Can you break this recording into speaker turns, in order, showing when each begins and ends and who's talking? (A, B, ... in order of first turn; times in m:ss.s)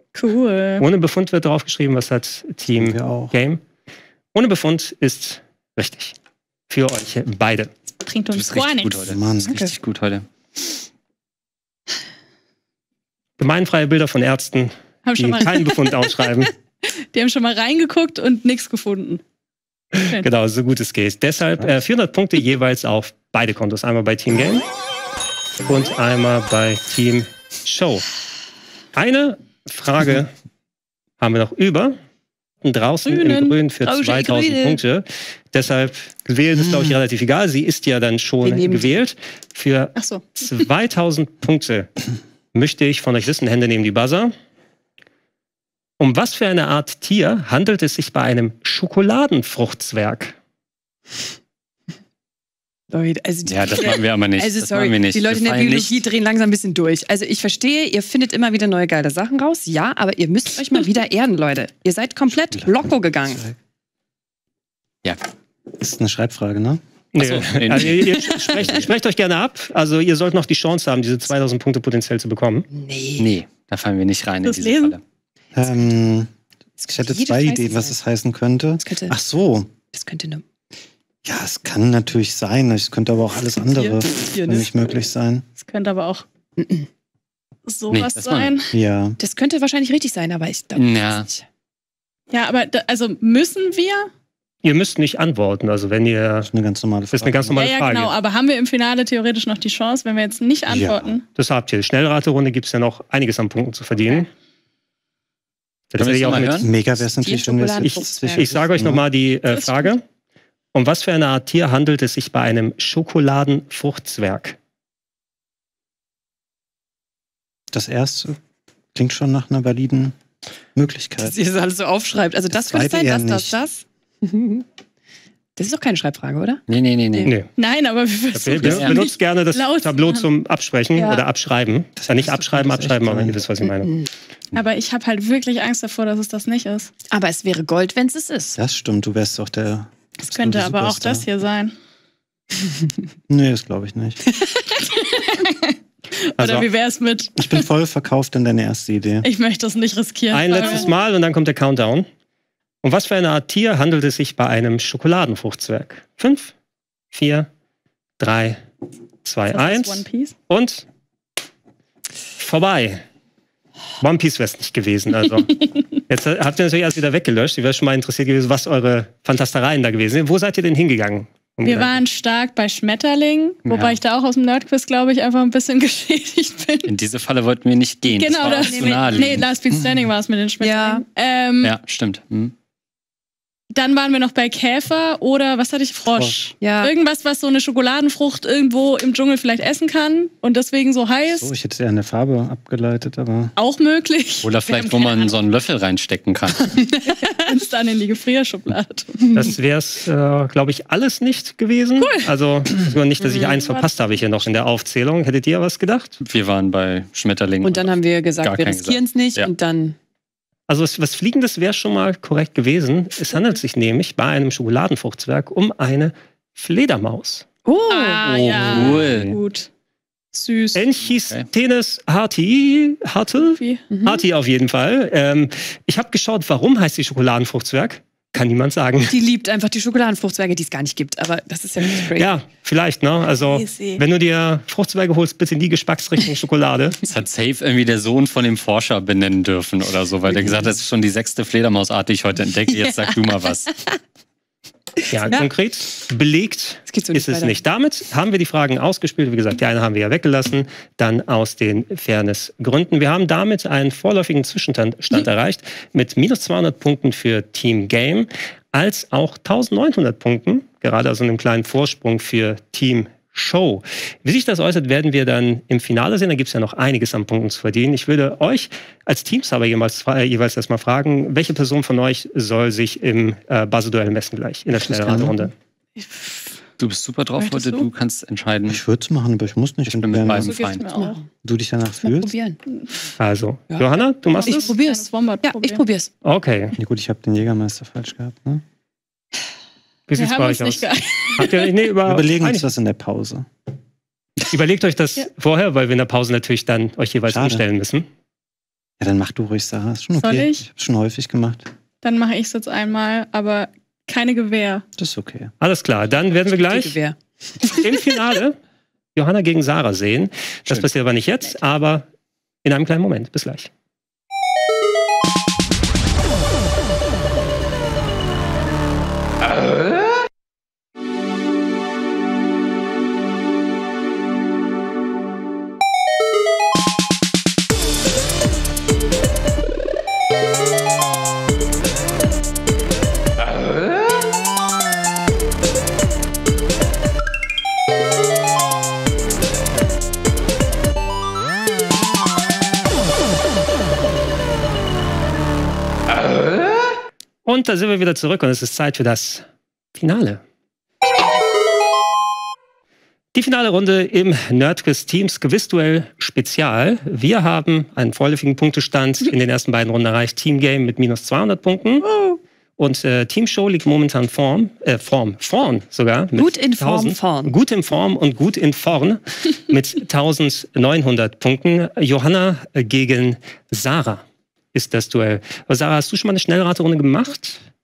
0:00.1-0:00.9 A
0:00.8-0:03.6 B
0:02.7-0:03.4 C
0:04.3-0:06.2 B
0:06.7-0:07.7 B
0:08.1-0:09.5 A
0:08.3-0:10.3 D
0:09.0-0:09.6 C
0:13.4-0:16.5 B
0:15.0-0:16.4 A
0:17.1-0:19.2 A
0:20.0-0:24.7 B
0:25.7-0:28.0 B
0:29.0-0:30.3 B
0:31.2-0:32.0 B
0:32.6-0:41.9 B
0:33.1-0:33.6 A
0:33.8-0:34.8 E
0:36.6-0:37.0 C
0:38.4-0:39.0 E
0:40.0-0:40.2 A
0:42.5-0:44.4 B
0:46.0-0:50.4 B
0:52.9-1:03.4 E
0:53.5-0:56.0 D
1:02.5-1:03.6 C
1:05.8-1:06.8 C
1:07.1-1:12.7 B
1:07.2-1:08.6 D
1:12.7-1:13.3 E
1:13.2-1:15.0 D
1:14.4-1:15.0 A
1:15.5-1:16.3 C
1:16.8-1:18.0 E
1:16.9-1:19.7 C
1:18.8-1:19.1 E
1:19.9-1:20.4 E
1:21.2-1:25.5 C
1:23.7-1:24.7 E
1:25.6-1:26.2 A
1:26.6-1:26.9 E
1:27.7-1:28.8 A
1:27.9-1:28.5 D
1:28.7-1:29.2 C
1:29.2-1:31.4 E
1:30.8-1:31.3 D
1:32.3-1:34.1 A
1:34.6-1:36.5 B
1:36.5-1:37.6 C
1:37.1-1:38.1 B
1:37.5-1:41.2 A
1:40.7-1:41.2 C
1:41.4-1:44.3 B
1:45.9-1:46.6 B
1:46.0-1:46.7 D
1:46.5-1:49.0 C
1:47.0-1:48.5 E
1:47.8-1:50.0 B
1:49.5-1:49.9 A
1:50.7-1:54.6 B
1:57.7-1:58.4 C
1:58.9-2:00.2 C
2:00.8-2:01.4 C
2:01.2-2:04.7 E
2:02.5-2:03.6 C
2:05.6-2:07.3 E
2:06.7-2:07.3 D
2:07.6-2:10.3 A
2:08.3-2:13.9 B
2:08.6-2:09.0 D
2:11.0-2:11.2 E
2:12.0-2:13.4 C
2:14.5-2:16.9 A
2:17.1-2:18.6 E
2:18.6-2:21.3 C
2:20.2-2:21.7 A
2:23.3-2:24.2 C
2:24.8-2:27.7 A
2:26.4-2:26.7 B
2:27.4-2:29.3 C
2:29.2-2:30.9 A
2:30.3-2:32.1 B
2:32.8-2:36.5 B
2:37.1-2:37.5 B
2:38.2-2:38.6 B
2:39.2-2:40.9 B
2:39.5-2:40.4 A
2:42.4-2:43.0 B
2:44.0-2:52.0 B
2:51.6-2:56.9 A
2:53.7-2:54.0 D
2:56.9-2:59.4 D
2:58.1-3:01.8 A
2:58.4-2:59.4 E
2:59.7-3:00.1 C
3:00.6-3:01.0 E
3:01.6-3:02.5 D
3:03.7-3:11.5 A
3:06.6-3:06.9 E
3:11.3-3:13.5 C
3:13.6-3:14.5 A
3:14.4-3:16.8 D
3:14.7-3:15.3 E
3:17.2-3:19.2 A
3:19.3-3:26.2 B
3:22.0-3:22.3 A
3:23.4-3:23.9 A
3:26.2-3:29.5 D
3:27.6-3:30.0 E
3:30.7-3:37.4 B
3:37.7-3:39.1 E
3:37.9-3:39.7 A
3:38.2-3:39.3 D
3:38.8-3:39.4 C
3:40.3-3:40.9 A
3:40.7-3:49.2 B
3:41.0-3:41.5 D
3:43.4-3:43.8 A
3:43.9-3:44.2 E
3:49.1-3:52.3 E
3:52.2-3:57.0 B
3:53.5-3:54.0 A
3:57.1-4:03.7 D
4:02.7-4:03.4 E
4:05.1-4:35.5 B
4:05.2-4:05.5 E
4:06.9-4:07.6 E
4:34.7-4:35.5 C
4:36.0-4:36.6 A
4:36.8-4:38.8 D
4:37.4-4:37.9 A
4:38.7-4:40.6 C
4:39.9-4:40.9 D
4:40.3-4:41.2 A
4:40.9-4:41.3 E
4:41.4-4:42.3 C
4:42.0-4:42.6 E
4:43.2-4:44.7 B
4:44.3-4:45.8 A
4:44.5-4:46.1 E
4:46.2-4:46.8 B
4:46.8-4:48.6 C
4:50.1-4:52.7 B
4:50.1-4:51.7 A
4:52.0-4:53.5 C
4:54.5-4:58.1 B
4:57.3-4:57.6 C
4:59.0-5:01.7 C
5:00.2-5:00.6 A
5:02.0-5:04.8 A
5:05.0-5:05.5 C
5:05.6-5:07.0 B
5:06.7-5:07.8 E
5:07.6-5:08.6 B
5:09.2-5:12.1 B
5:12.6-5:13.7 B
5:47.5-5:50.4 B
5:53.3-6:02.1 B
6:02.0-6:02.4 E
6:02.8-6:17.6 B
6:06.4-6:07.5 E